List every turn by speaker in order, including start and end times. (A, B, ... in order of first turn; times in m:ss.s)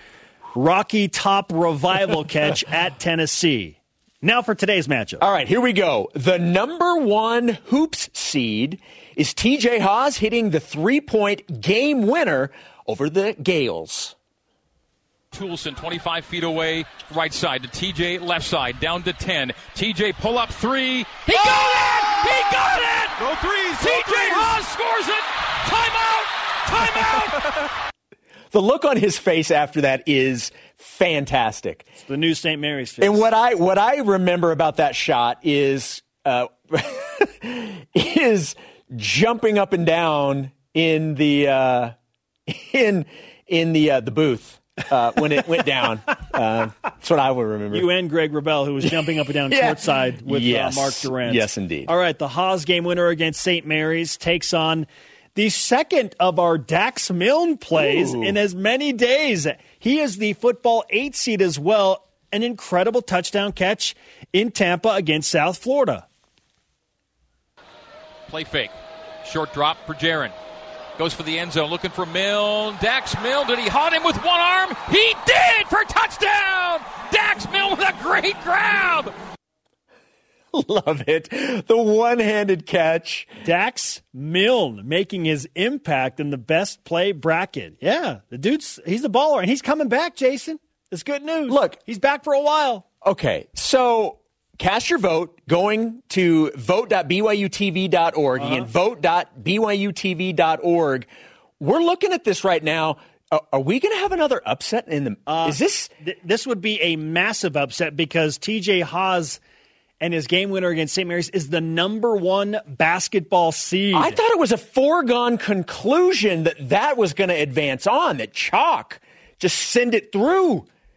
0:00.5-0:05.2 A
0:05.2-0:14.2 B
0:15.3-0:27.6 C
0:28.5-0:31.9 B
0:32.0-0:33.3 A
0:33.0-0:42.0 B
0:42.5-0:47.9 B
0:47.7-1:06.1 A
0:48.8-0:51.9 B
0:57.8-0:58.4 B
1:08.3-1:10.3 C
1:11.0-1:19.1 C
1:20.5-1:23.3 B
1:23.4-1:32.9 A
1:31.5-1:31.8 B
1:33.0-1:41.1 B
1:38.4-1:38.7 A
1:41.6-1:45.9 B
1:45.3-1:49.4 A
1:50.0-1:54.2 A
1:53.9-2:00.7 B